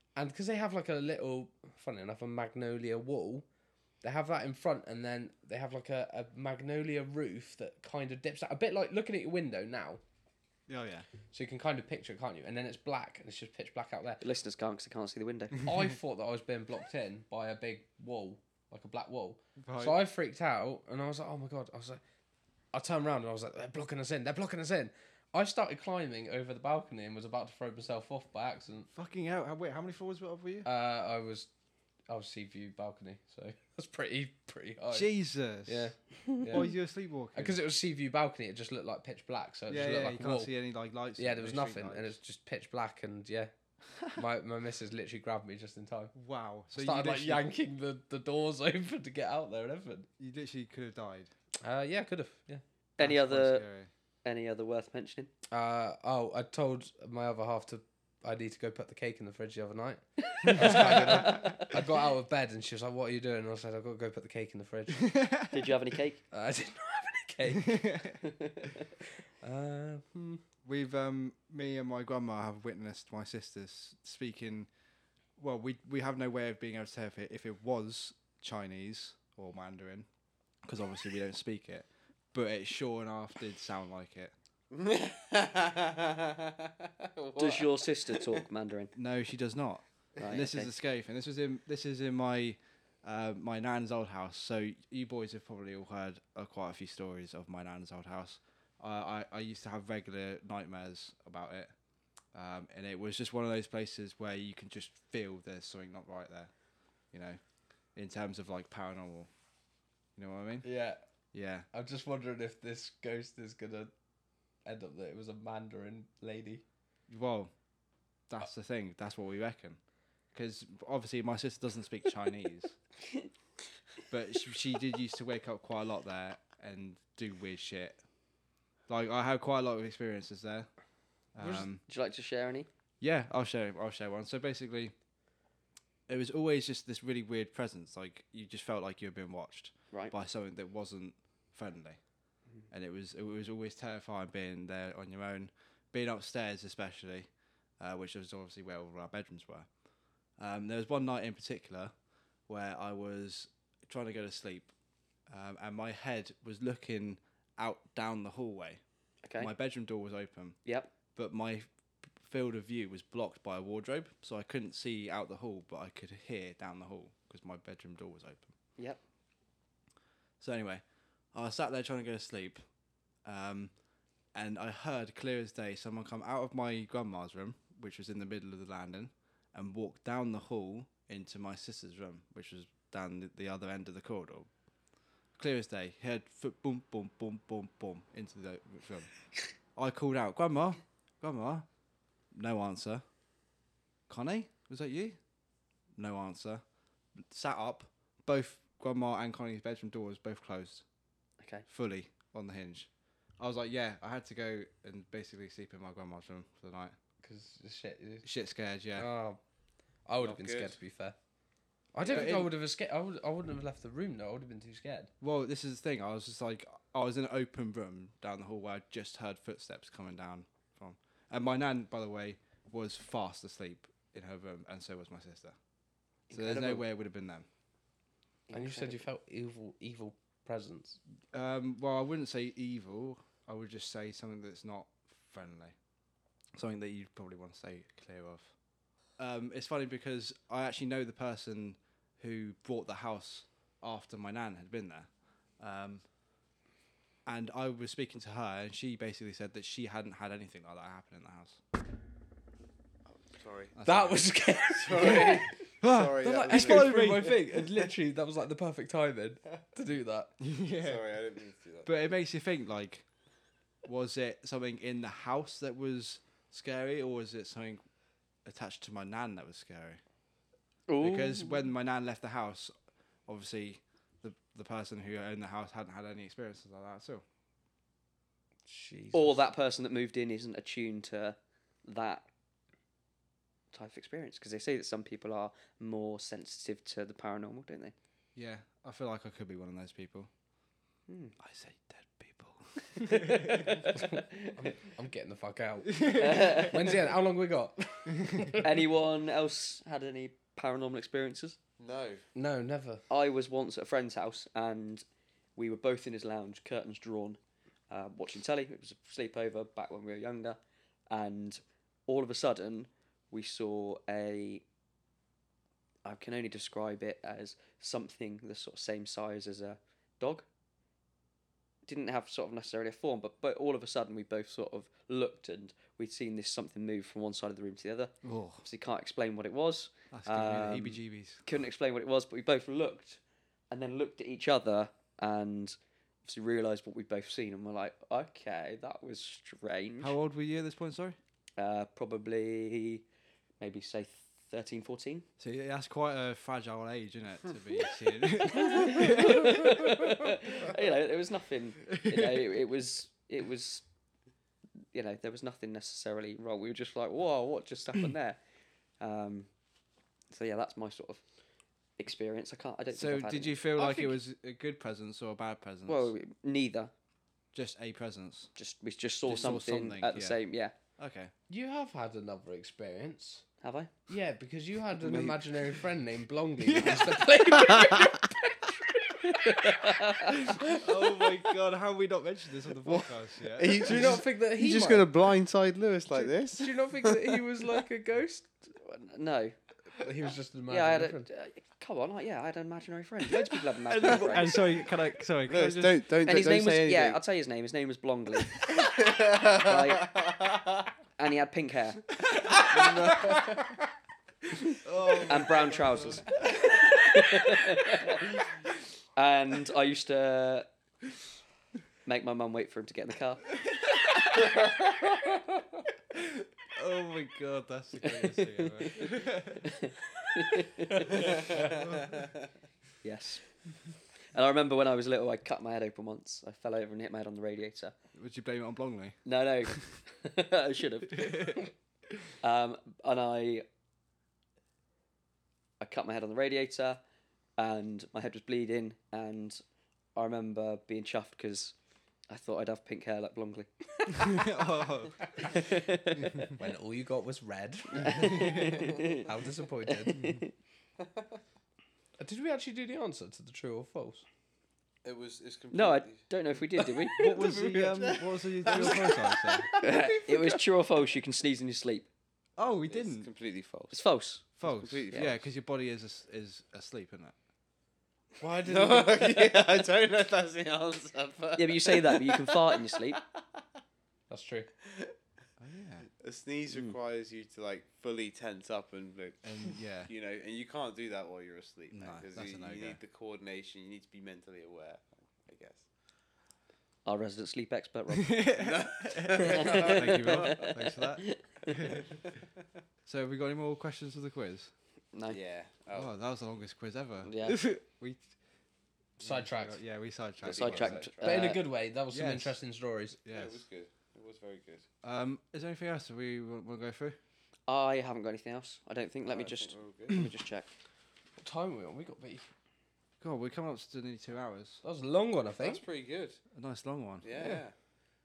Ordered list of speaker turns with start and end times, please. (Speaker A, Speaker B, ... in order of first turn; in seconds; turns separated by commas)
Speaker A: 0.2-3.5, Speaker A: 4.0-10.0, Speaker B: 10.7-11.1, Speaker A: 11.3-14.2, Speaker C: 14.2-15.6, Speaker A: 15.6-22.0, Speaker B: 19.6-20.0, Speaker A: 22.7-28.9, Speaker B: 28.9-30.7, Speaker A: 30.6-31.5, Speaker A: 32.1-35.1, Speaker B: 34.9-35.9, Speaker A: 35.7-36.8, Speaker B: 36.5-37.6, Speaker A: 37.3-40.5, Speaker B: 39.7-42.2, Speaker A: 41.2-43.5, Speaker A: 44.0-46.1, Speaker B: 46.1-47.5, Speaker A: 46.7-50.1, Speaker B: 50.2-51.3, Speaker A: 51.6-52.6, Speaker C: 53.0-53.6, Speaker B: 53.0-53.9, Speaker C: 54.2-55.3, Speaker A: 55.5-65.2, Speaker C: 60.4-61.7, Speaker B: 60.5-61.6, Speaker B: 64.9-65.7, Speaker C: 65.5-66.2, Speaker A: 66.3-67.9, Speaker B: 67.6-68.2, Speaker C: 68.2-68.5, Speaker A: 69.4-70.4, Speaker B: 70.7-74.7, Speaker B: 75.4-80.1, Speaker B: 80.7-84.3, Speaker D: 84.7-88.4, Speaker C: 87.4-88.9, Speaker B: 89.0-101.7, Speaker C: 90.2-90.7, Speaker B: 102.3-106.5, Speaker B: 107.1-107.4, Speaker B: 108.0-109.3, Speaker B: 110.2-110.7, Speaker A: 110.6-111.0, Speaker B: 111.3-111.7, Speaker A: 111.7-113.9, Speaker A: 114.7-116.6, Speaker B: 117.1-117.5, Speaker B: 118.3-119.8, Speaker B: 120.3-122.8, Speaker B: 124.1-128.0, Speaker B: 128.9-130.7, Speaker B: 131.3-131.8, Speaker C: 131.4-132.7, Speaker B: 133.0-134.9, Speaker B: 136.1-142.0, Speaker B: 142.7-147.3, Speaker B: 147.8-149.7, Speaker B: 150.4-151.9, Speaker B: 152.5-154.7, Speaker B: 155.3-158.8, Speaker C: 159.2-159.5, Speaker B: 159.4-160.6, Speaker C: 160.7-160.9, Speaker B: 161.2-168.5, Speaker B: 170.4-172.6, Speaker B: 173.2-173.7, Speaker B: 174.3-184.5, Speaker B: 185.4-189.1, Speaker B: 189.8-191.7, Speaker B: 192.3-193.0, Speaker B: 194.1-195.2, Speaker B: 196.0-196.6, Speaker B: 197.2-200.8, Speaker C: 201.4-201.7, Speaker B: 201.7-206.9, Speaker A: 207.2-208.3, Speaker B: 208.2-209.1, Speaker A: 209.0-209.4, Speaker A: 210.1-211.2, Speaker D: 210.2-210.8, Speaker A: 211.9-215.1, Speaker D: 212.0-212.3, Speaker B: 212.1-212.5, Speaker B: 215.2-225.6, Speaker C: 226.3-226.8, Speaker B: 226.3-227.5, Speaker C: 228.5-229.0, Speaker A: 228.5-231.0, Speaker B: 231.3-235.7, Speaker B: 236.6-238.5, Speaker B: 239.2-246.1, Speaker B: 247.3-251.6, Speaker D: 253.1-253.8, Speaker B: 253.7-254.3, Speaker A: 253.8-255.7, Speaker D: 254.8-257.7, Speaker B: 255.8-257.4, Speaker A: 256.2-260.3, Speaker B: 260.4-261.1, Speaker D: 260.8-261.9, Speaker B: 261.9-263.1, Speaker B: 263.8-267.8, Speaker B: 268.4-270.0, Speaker C: 270.9-271.6, Speaker B: 271.0-272.7, Speaker B: 273.3-277.2, Speaker A: 278.7-279.5, Speaker C: 279.1-282.3, Speaker C: 283.7-287.9, Speaker B: 288.4-290.3, Speaker C: 291.1-291.4, Speaker B: 291.4-293.8, Speaker C: 293.0-294.5, Speaker A: 293.9-298.6, Speaker B: 295.9-296.9, Speaker C: 296.2-296.9, Speaker C: 298.6-301.6, Speaker D: 301.8-302.2, Speaker A: 302.4-303.0, Speaker C: 303.1-305.0, Speaker C: 305.6-307.4, Speaker C: 307.9-310.6, Speaker C: 311.1-314.6, Speaker C: 316.1-320.5, Speaker C: 321.9-333.2, Speaker B: 328.2-328.7, Speaker B: 330.1-331.4, Speaker C: 333.7-340.1, Speaker B: 340.0-341.2, Speaker C: 341.6-343.1, Speaker C: 343.6-345.3, Speaker B: 345.4-350.4, Speaker C: 348.7-353.8, Speaker B: 351.9-352.4, Speaker C: 354.9-358.4, Speaker C: 359.0-359.5, Speaker C: 360.3-361.2, Speaker C: 362.0-364.2, Speaker B: 362.9-366.1, Speaker C: 365.9-366.9, Speaker B: 367.5-368.5, Speaker C: 368.6-370.7, Speaker B: 369.2-370.4, Speaker B: 371.0-371.3, Speaker A: 371.5-373.5, Speaker C: 373.6-373.9, Speaker A: 374.1-381.4, Speaker B: 375.0-375.4, Speaker B: 376.6-377.5, Speaker C: 379.8-380.3, Speaker B: 380.7-383.8, Speaker D: 383.6-387.4, Speaker A: 383.7-385.1, Speaker A: 386.1-388.7, Speaker C: 388.8-389.6, Speaker A: 389.9-391.3, Speaker C: 390.7-394.6, Speaker B: 393.5-396.0, Speaker D: 395.5-397.2, Speaker C: 396.2-398.8, Speaker D: 398.6-400.9, Speaker C: 399.3-400.2, Speaker C: 401.2-402.1, Speaker B: 402.4-403.6, Speaker D: 402.7-403.5, Speaker B: 404.8-406.4, Speaker C: 405.2-408.5, Speaker D: 405.5-406.2, Speaker C: 409.1-410.7, Speaker C: 412.1-413.5, Speaker B: 413.7-414.4, Speaker B: 416.7-419.7, Speaker C: 418.0-421.2, Speaker B: 421.1-422.1, Speaker D: 421.3-422.3, Speaker C: 423.0-423.4, Speaker C: 424.3-427.9, Speaker B: 428.1-430.0, Speaker C: 429.2-431.7, Speaker B: 431.1-431.6, Speaker C: 432.4-433.7, Speaker C: 435.8-437.0, Speaker C: 437.6-439.6, Speaker C: 440.1-441.8, Speaker C: 442.3-444.4, Speaker B: 444.1-445.3, Speaker C: 445.5-446.4, Speaker A: 446.5-450.4, Speaker C: 447.9-449.3, Speaker B: 448.1-448.8, Speaker C: 449.9-450.5, Speaker A: 452.2-454.2, Speaker D: 455.0-460.6, Speaker C: 455.7-457.2, Speaker B: 457.2-459.7, Speaker C: 459.8-462.1, Speaker B: 462.6-463.3, Speaker D: 462.6-464.1, Speaker C: 463.9-464.5, Speaker D: 464.6-465.4, Speaker B: 464.6-467.4, Speaker A: 468.4-469.2, Speaker D: 468.4-473.2, Speaker C: 471.6-473.2, Speaker A: 474.3-474.7, Speaker D: 474.9-475.1, Speaker B: 475.6-476.1, Speaker D: 476.2-485.9, Speaker B: 479.4-480.1, Speaker B: 481.9-483.0, Speaker C: 487.1-488.4, Speaker B: 488.3-492.1, Speaker D: 488.6-490.6, Speaker C: 489.5-492.0, Speaker B: 493.1-494.7, Speaker C: 495.1-495.4, Speaker D: 495.3-496.1, Speaker B: 495.9-498.3, Speaker C: 497.2-497.6, Speaker A: 499.2-499.8, Speaker B: 499.2-501.1, Speaker D: 500.4-501.6, Speaker C: 500.5-501.6, Speaker A: 501.2-503.2, Speaker B: 502.1-502.6, Speaker B: 503.2-503.6, Speaker D: 503.3-504.9, Speaker B: 505.0-507.2, Speaker C: 507.7-510.7, Speaker D: 509.3-510.3, Speaker A: 511.4-512.5, Speaker B: 513.2-514.8, Speaker A: 514.8-515.8, Speaker D: 515.5-516.4, Speaker B: 516.5-517.5, Speaker D: 517.2-517.8